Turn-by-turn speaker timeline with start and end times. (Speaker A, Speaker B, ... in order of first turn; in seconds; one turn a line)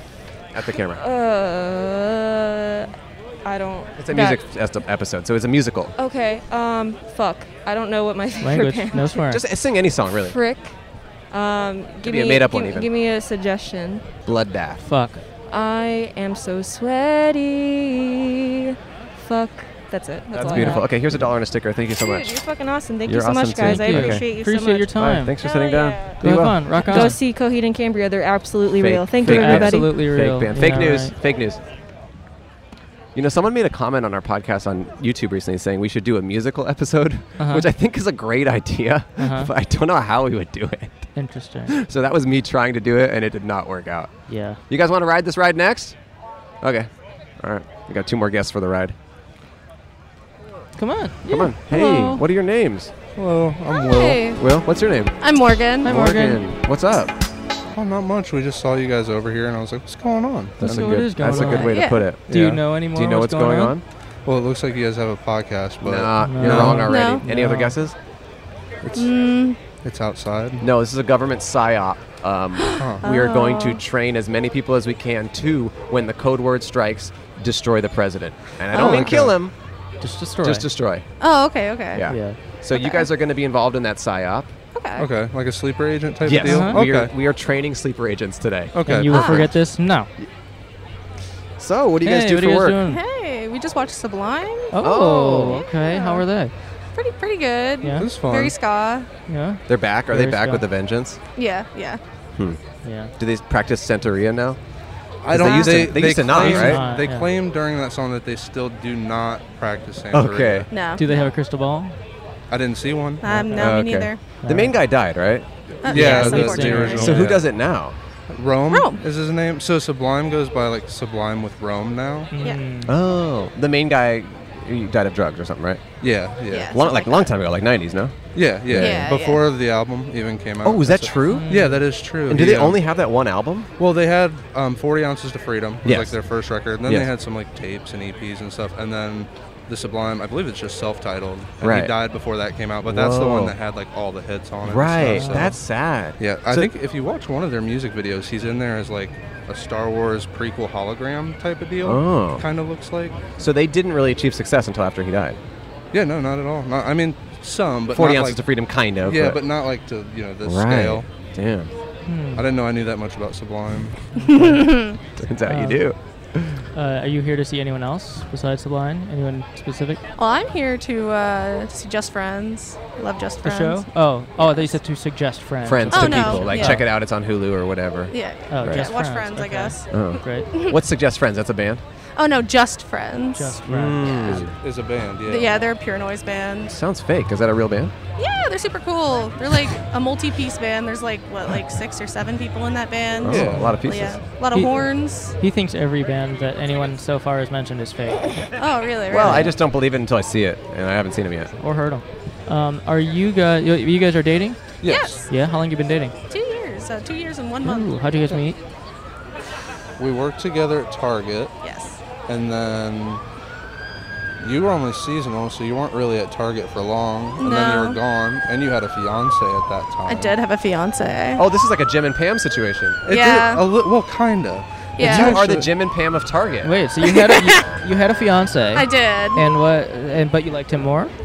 Speaker A: 0.5-1.0
Speaker B: 0.7-2.9
Speaker B: 3.5-4.4
Speaker A: 4.0-6.0
Speaker B: 6.0-9.3
Speaker C: 8.4-9.4
Speaker A: 9.2-10.4
Speaker B: 10.3-10.8
Speaker B: 11.3-14.1
Speaker A: 12.0-12.9
Speaker A: 14.3-14.9
Speaker C: 14.8-15.2
Speaker B: 15.5-20.9
Speaker A: 20.3-22.4
Speaker C: 20.4-21.2
Speaker B: 22.0-26.2
Speaker A: 23.1-24.3
Speaker C: 23.6-25.4
Speaker A: 25.0-27.2
Speaker C: 26.2-27.2
Speaker B: 26.8-30.0
Speaker A: 28.7-31.6
Speaker C: 29.2-31.1
Speaker A: 33.1-41.1
Speaker C: 37.4-37.7
Speaker C: 39.2-39.5
Speaker C: 41.1-41.8
Speaker A: 41.7-44.1
Speaker C: 44.3-44.6
Speaker A: 44.7-46.0
Speaker A: 46.6-49.0
Speaker C: 50.8-52.2
Speaker A: 51.3-52.9
Speaker D: 53.1-54.3
Speaker E: 53.7-54.4
Speaker A: 54.4-55.1
Speaker E: 55.2-55.9
Speaker A: 55.8-57.1
Speaker C: 55.9-56.4
Speaker D: 57.7-60.8
Speaker A: 60.6-62.3
Speaker C: 60.6-63.7
Speaker E: 61.5-62.0
Speaker D: 62.3-62.7
Speaker A: 62.8-63.8
Speaker D: 64.3-67.0
Speaker A: 65.8-68.0
Speaker C: 66.2-67.8
Speaker E: 66.9-67.2
Speaker D: 68.8-69.2
Speaker E: 69.0-69.6
Speaker D: 69.8-70.7
Speaker A: 70.6-79.5
Speaker D: 72.8-73.0
Speaker E: 73.0-73.8
Speaker E: 78.8-79.0
Speaker D: 78.8-79.4
Speaker C: 80.0-80.7
Speaker A: 80.4-81.1
Speaker E: 81.2-82.1
Speaker A: 81.9-84.5
Speaker C: 82.0-82.4
Speaker E: 82.8-83.1
Speaker D: 85.0-87.1
Speaker A: 86.2-89.6
Speaker C: 86.4-86.8
Speaker D: 88.7-89.3
Speaker C: 88.8-90.1
Speaker A: 91.6-92.8
Speaker C: 92.0-93.0
Speaker E: 92.8-94.7
Speaker C: 94.7-96.5
Speaker A: 94.8-95.6
Speaker E: 95.5-96.2
Speaker E: 97.0-99.0
Speaker D: 98.0-98.6
Speaker C: 99.3-100.6
Speaker A: 99.7-101.2
Speaker E: 101.4-102.0
Speaker C: 102.8-103.1
Speaker A: 103.2-104.6
Speaker D: 105.2-110.7
Speaker A: 105.3-106.9
Speaker C: 106.3-107.3
Speaker A: 110.1-110.7
Speaker E: 110.7-111.0
Speaker C: 111.0-112.0
Speaker D: 112.5-113.4
Speaker C: 113.2-113.7
Speaker A: 113.5-118.0
Speaker C: 114.4-114.7
Speaker C: 115.9-117.3
Speaker D: 115.9-117.5
Speaker D: 118.3-122.3
Speaker C: 122.3-122.9
Speaker A: 122.8-125.8
Speaker D: 126.0-126.8
Speaker E: 126.5-127.3
Speaker A: 126.7-129.2
Speaker D: 128.3-132.8
Speaker E: 128.8-129.4
Speaker A: 130.6-131.6
Speaker C: 131.3-131.8
Speaker A: 132.3-133.7
Speaker D: 133.8-145.6
Speaker A: 135.8-136.2
Speaker A: 136.8-137.1
Speaker A: 141.6-141.9
Speaker A: 142.8-143.6
Speaker A: 144.6-146.7
Speaker C: 145.0-145.5
Speaker D: 146.2-153.2
Speaker A: 151.8-152.5
Speaker A: 153.4-155.4
Speaker D: 155.9-161.1
Speaker A: 157.9-159.4
Speaker A: 160.4-161.7
Speaker C: 162.1-162.4
Speaker D: 162.3-164.0
Speaker C: 164.2-164.8
Speaker A: 165.2-166.6
Speaker C: 165.4-165.8
Speaker C: 166.7-170.0
Speaker E: 170.2-173.9
Speaker C: 173.4-176.9
Speaker E: 174.4-174.8
Speaker A: 175.6-178.1
Speaker E: 175.9-176.8
Speaker E: 178.1-179.9
Speaker C: 178.5-180.5
Speaker A: 179.9-181.8
Speaker E: 182.2-183.6
Speaker C: 183.3-184.5
Speaker A: 183.7-184.6
Speaker D: 184.6-185.7
Speaker E: 185.3-186.8
Speaker A: 186.7-187.9
Speaker E: 188.2-195.3
Speaker A: 193.2-194.2
Speaker D: 193.2-193.8
Speaker C: 193.5-193.8
Speaker C: 194.5-198.4
Speaker E: 198.6-199.5
Speaker A: 199.1-201.5
Speaker C: 199.1-199.5
Speaker C: 201.6-204.6
Speaker D: 204.8-205.2
Speaker E: 204.8-205.3
Speaker C: 205.3-206.2
Speaker E: 206.3-207.9
Speaker C: 207.6-208.6
Speaker D: 210.0-211.5
Speaker E: 211.6-212.0
Speaker D: 212.3-213.2
Speaker D: 214.4-220.4
Speaker E: 217.4-218.0
Speaker E: 220.1-221.4
Speaker A: 221.4-223.1
Speaker D: 223.1-225.7
Speaker E: 223.1-223.6
Speaker E: 225.0-225.4
Speaker A: 225.0-226.7
Speaker C: 226.6-231.1
Speaker E: 227.2-227.6
Speaker E: 228.7-229.4